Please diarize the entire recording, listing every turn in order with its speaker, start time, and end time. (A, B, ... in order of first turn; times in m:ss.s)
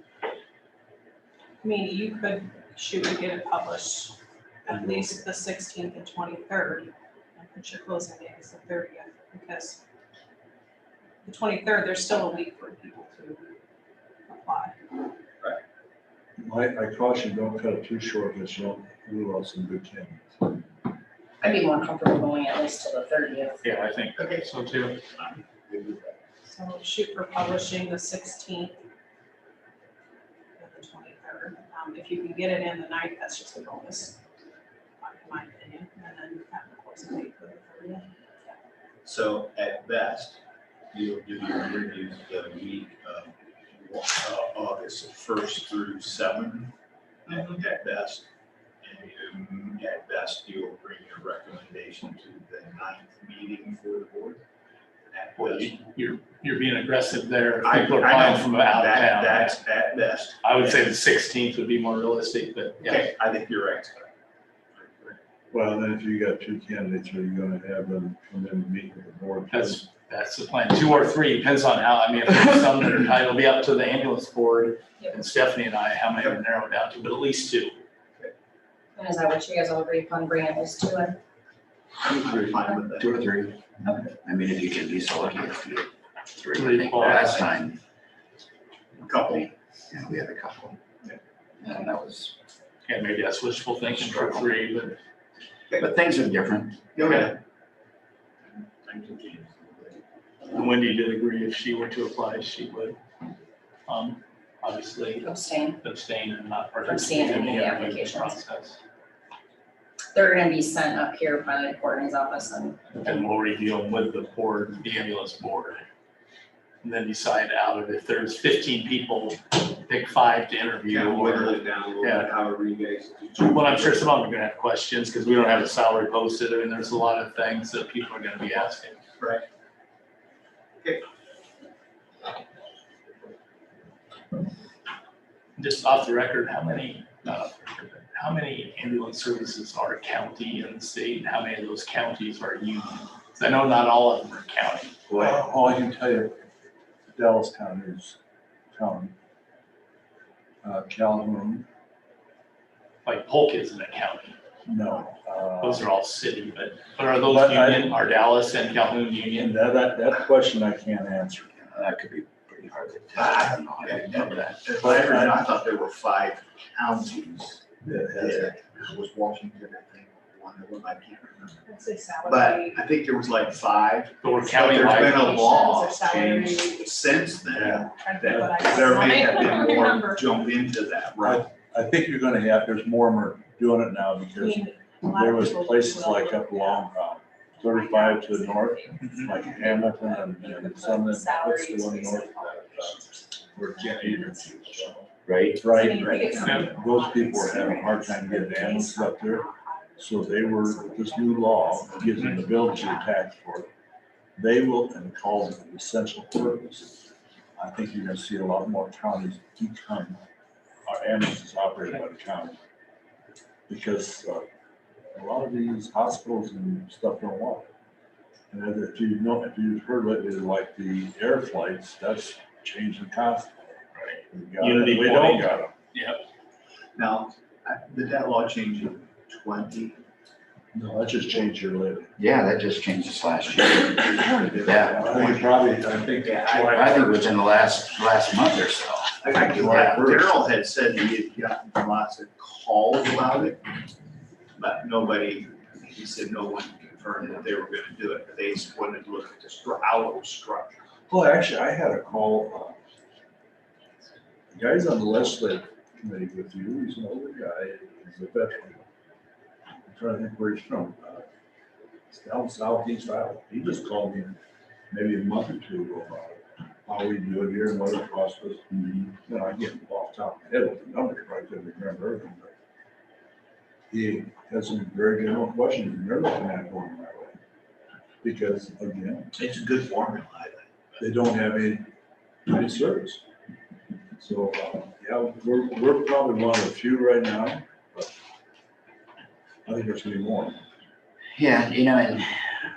0:01.6-0:09.8 A
0:04.7-0:05.1 B
0:11.2-0:13.6 A
0:14.3-0:14.8 A
0:16.4-0:20.5 B
0:21.4-0:23.6 C
0:23.6-0:25.0 D
0:24.2-0:24.5 E
0:25.1-0:26.2 E
0:26.5-0:28.8 A
0:30.6-0:34.2 A
0:35.0-0:38.1 A
0:39.0-0:46.7 E
0:47.3-0:48.3 E
0:48.8-0:54.4 E
0:55.1-0:55.8 E
0:55.4-0:59.6 D
0:57.6-1:00.9 E
1:00.4-1:03.1 D
1:02.8-1:04.1 E
1:04.8-1:05.2 E
1:05.5-1:09.8 B
1:09.5-1:17.8 D
1:19.0-1:21.2 C
1:22.0-1:22.5 F
1:22.1-1:23.1 E
1:23.0-1:27.8 F
1:26.6-1:27.4 D
1:29.0-1:29.5 E
1:29.0-1:30.8 F
1:31.6-1:32.3 F
1:32.9-1:35.0 D
1:34.0-1:34.4 F
1:35.8-1:37.0 F
1:37.0-1:37.4 E
1:37.0-1:37.3 D
1:38.5-1:40.0 E
1:40.5-1:43.0 D
1:43.9-1:45.3 D
1:45.2-1:45.8 C
1:45.8-1:48.8 D
1:46.9-1:48.4 C
1:50.1-1:52.9 C
1:53.0-1:55.8 D
1:56.8-2:02.3 D
2:00.9-2:04.0 E
2:03.4-2:09.0 D
2:09.2-2:09.4 E
2:15.6-2:25.0 D
2:25.1-2:26.5 B
2:27.1-2:28.2 B
2:28.7-2:29.2 B
2:30.6-2:31.7 B
2:33.0-2:34.4 D
2:34.7-2:35.8 B
2:35.6-2:39.5 D
2:37.2-2:37.9 B
2:39.4-2:41.6 B
2:41.7-2:44.6 F
2:43.2-2:51.6 E
2:44.8-2:45.4 B
2:47.8-2:48.6 B
2:51.6-2:52.9 A
2:52.2-3:01.5 E
2:54.2-2:55.4 D
2:54.4-2:57.0 A
2:57.5-2:58.7 B
2:57.6-3:00.5 A
3:01.2-3:19.5 B
3:04.4-3:15.0 A
3:09.0-3:09.3 D
3:15.3-3:15.7 F
3:15.6-3:23.1 A
3:15.8-3:16.6 E
3:20.0-3:23.7 B
3:24.4-3:27.0 B
3:27.6-3:30.2 B
3:30.8-3:32.6 B
3:33.7-3:34.5 B
3:35.1-3:37.7 B
3:38.5-3:45.7 B
3:44.0-3:46.2 D
3:47.0-3:50.0 E
3:50.7-3:52.1 B
3:52.2-3:55.1 F
3:54.0-3:55.6 E
3:54.8-3:57.1 B
3:56.2-3:57.2 E
3:56.7-3:59.4 F
3:59.2-4:03.6 E
3:59.3-4:00.3 B
4:04.6-4:10.8 E
4:11.1-4:12.8 B
4:14.5-4:18.8 B
4:19.9-4:21.3 B
4:22.1-4:24.4 B
4:24.9-4:32.5 B
4:33.9-4:37.4 B
4:38.2-4:39.3 B
4:39.4-4:41.0 E
4:41.0-4:41.9 B
4:42.5-4:43.2 B
4:44.2-4:48.1 B
4:49.7-4:50.6 B
4:51.4-4:52.6 F